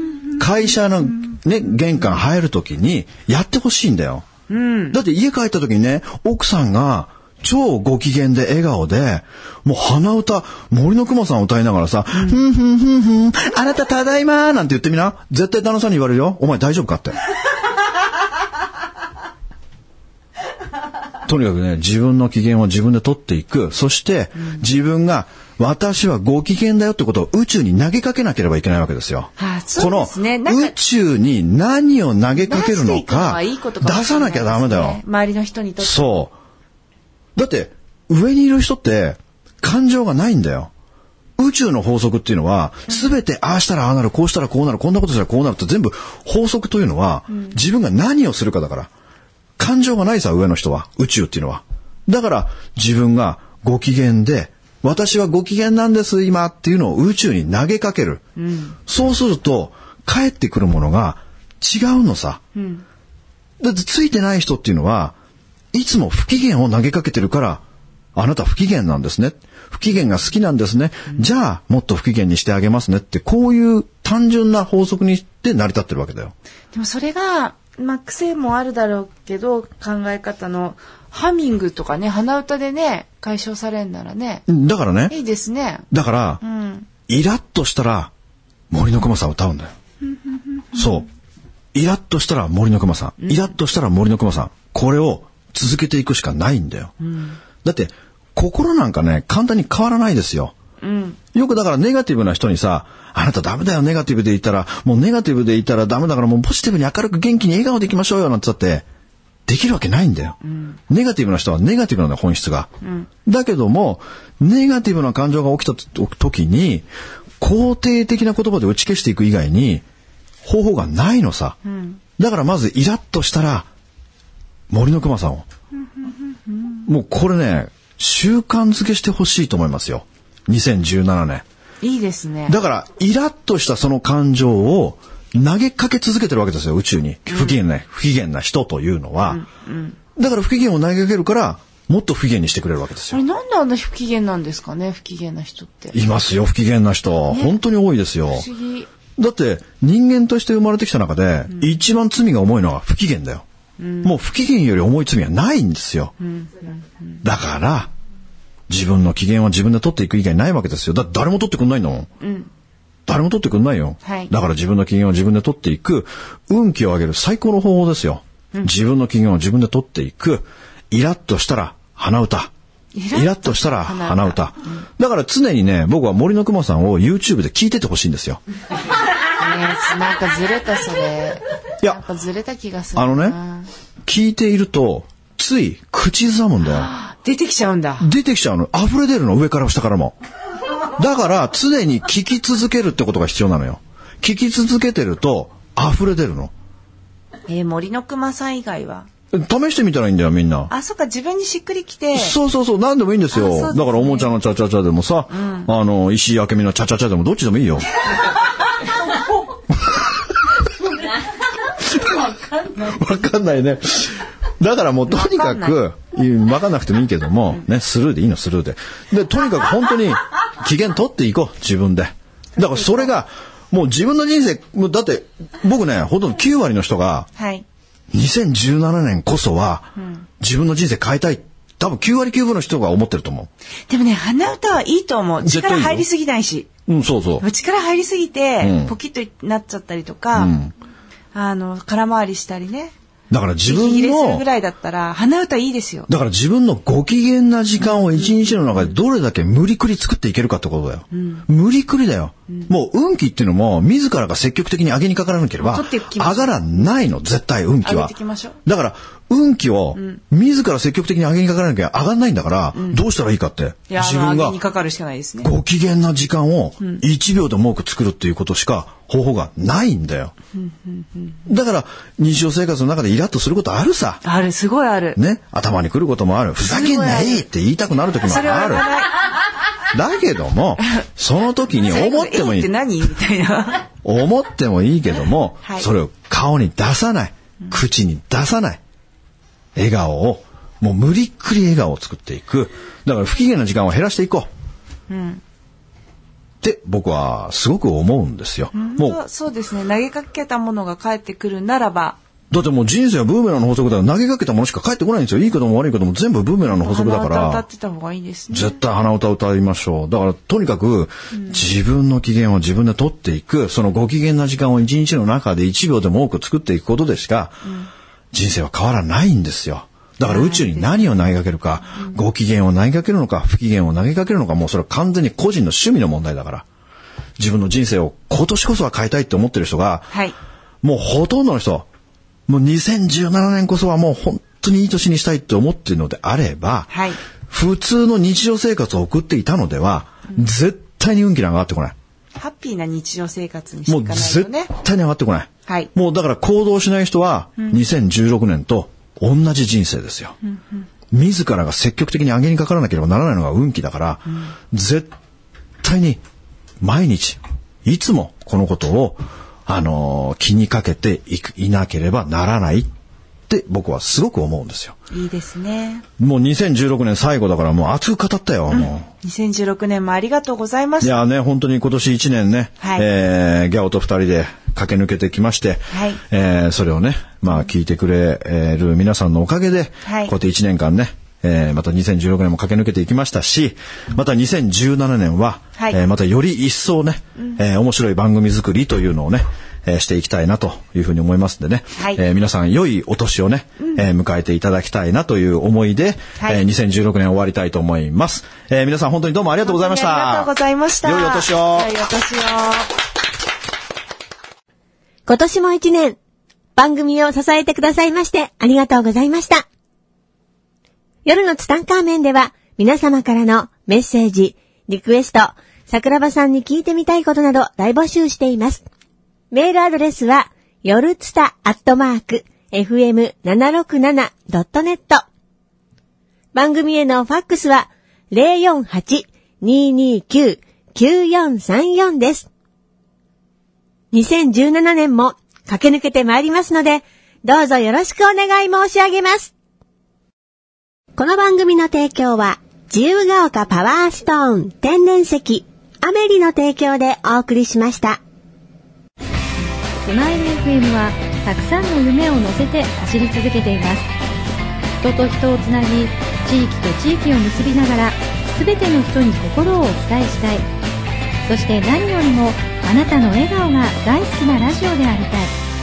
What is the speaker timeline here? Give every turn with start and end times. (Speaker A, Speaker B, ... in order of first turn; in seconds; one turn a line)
Speaker A: 0.4-4.2
Speaker B: 4.5-5.0
Speaker A: 4.9-17.2
Speaker A: 21.2-35.0
Speaker B: 29.4-30.8
Speaker B: 32.3-36.1
Speaker A: 35.8-36.3
Speaker A: 37.4-40.7
Speaker A: 41.4-48.9
Speaker A: 49.6-58.2
Speaker B: 58.4-58.8
Speaker A: 58.9-62.4
Speaker B: 62.5-62.8
Speaker A: 63.6-65.1
Speaker A: 65.7-67.6
Speaker A: 68.1-76.3
Speaker B: 76.7-84.4
Speaker A: 84.5-85.1
Speaker B: 85.1-85.9
Speaker A: 85.9-86.4
Speaker B: 86.4-86.9
Speaker A: 87.1-88.1
Speaker A: 88.7-89.7
Speaker A: 90.7-91.0
Speaker A: 91.7-96.9
Speaker B: 93.2-93.5
Speaker B: 97.0-97.4
Speaker A: 97.6-100.5
Speaker B: 100.8-101.2
Speaker A: 101.3-108.8
Speaker A: 109.5-110.4
Speaker B: 110.5-110.8
Speaker A: 110.9-112.7
Speaker B: 112.8-113.1
Speaker A: 113.2-116.9
Speaker A: 117.4-119.8
Speaker A: 120.4-121.6
Speaker B: 121.6-122.0
Speaker A: 122.2-123.7
Speaker A: 124.7-125.4
Speaker B: 126.0-126.8
Speaker A: 126.8-131.4
Speaker B: 131.8-132.6
Speaker A: 132.5-139.4
Speaker B: 137.3-137.6
Speaker B: 139.2-140.0
Speaker A: 140.2-143.2
Speaker B: 143.1-146.0
Speaker A: 145.9-148.5
Speaker B: 147.3-147.6
Speaker B: 148.3-148.9
Speaker A: 149.2-153.4
Speaker B: 153.8-154.1
Speaker A: 154.0-156.1
Speaker B: 156.2-156.8
Speaker A: 157.2-157.9
Speaker A: 158.7-162.1
Speaker B: 162.2-162.5
Speaker A: 163.1-172.5
Speaker B: 164.0-164.3
Speaker B: 172.9-174.8
Speaker A: 173.1-178.4
Speaker B: 179.4-183.7
Speaker A: 182.9-183.4
Speaker A: 184.0-186.9
Speaker B: 186.6-188.1
Speaker A: 188.0-190.2
Speaker A: 190.9-196.5
Speaker B: 197.5-199.1
Speaker A: 199.3-200.7
Speaker B: 200.7-202.3
Speaker A: 202.1-207.8
Speaker B: 203.3-204.3
Speaker B: 205.3-205.7
Speaker A: 209.7-210.0
Speaker A: 211.7-227.3
Speaker B: 215.1-215.8
Speaker B: 222.6-223.1
Speaker B: 227.3-227.6
Speaker A: 228.1-233.5
Speaker B: 233.9-236.7
Speaker A: 235.4-236.0
Speaker A: 236.9-237.4
Speaker B: 237.4-240.6
Speaker A: 238.6-238.9
Speaker A: 240.3-240.7
Speaker B: 241.3-242.9
Speaker A: 243.3-244.4
Speaker B: 243.6-246.1
Speaker A: 246.1-264.6
Speaker B: 248.1-248.9
Speaker B: 251.1-251.4
Speaker B: 255.6-256.5
Speaker B: 257.8-258.6
Speaker B: 259.9-260.2
Speaker B: 262.7-263.0
Speaker B: 263.9-265.5
Speaker A: 265.4-270.3
Speaker B: 270.6-271.3
Speaker A: 271.5-274.2
Speaker B: 274.2-275.2
Speaker A: 275.1-278.9
Speaker B: 276.6-277.4
Speaker B: 278.2-279.1
Speaker A: 279.9-282.7
Speaker B: 281.8-283.9
Speaker A: 284.0-288.8
Speaker A: 289.7-294.5
Speaker B: 295.1-295.4
Speaker A: 296.6-299.2
Speaker B: 298.7-302.2
Speaker A: 302.5-307.6
Speaker B: 306.6-308.8
Speaker A: 308.5-317.6
Speaker A: 318.3-326.6
Speaker B: 320.2-321.0
Speaker A: 327.4-330.1
Speaker A: 330.8-331.9
Speaker A: 332.5-336.9
Speaker B: 336.9-337.2
Speaker A: 337.5-341.9
Speaker B: 342.4-344.7
Speaker A: 343.9-350.4
Speaker A: 351.1-355.1
Speaker A: 355.8-356.2
Speaker A: 356.8-362.9
Speaker A: 363.5-364.9
Speaker B: 365.1-366.0
Speaker A: 366.2-369.1
Speaker B: 368.7-371.2
Speaker A: 371.0-400.5
Speaker B: 372.8-373.1
Speaker B: 375.9-376.2
Speaker B: 380.0-380.3
Speaker B: 391.9-392.2
Speaker B: 396.4-396.6
Speaker B: 399.6-402.9
Speaker A: 401.0-401.9
Speaker C: 405.3-406.2
Speaker C: 406.8-409.6
Speaker C: 411.2-418.9
Speaker C: 419.5-425.2
Speaker C: 426.5-432.5
Speaker C: 434.1-439.5
Speaker C: 441.1-448.2
Speaker D: 450.0-454.1
Speaker D: 455.0-460.6
Speaker D: 461.5-465.5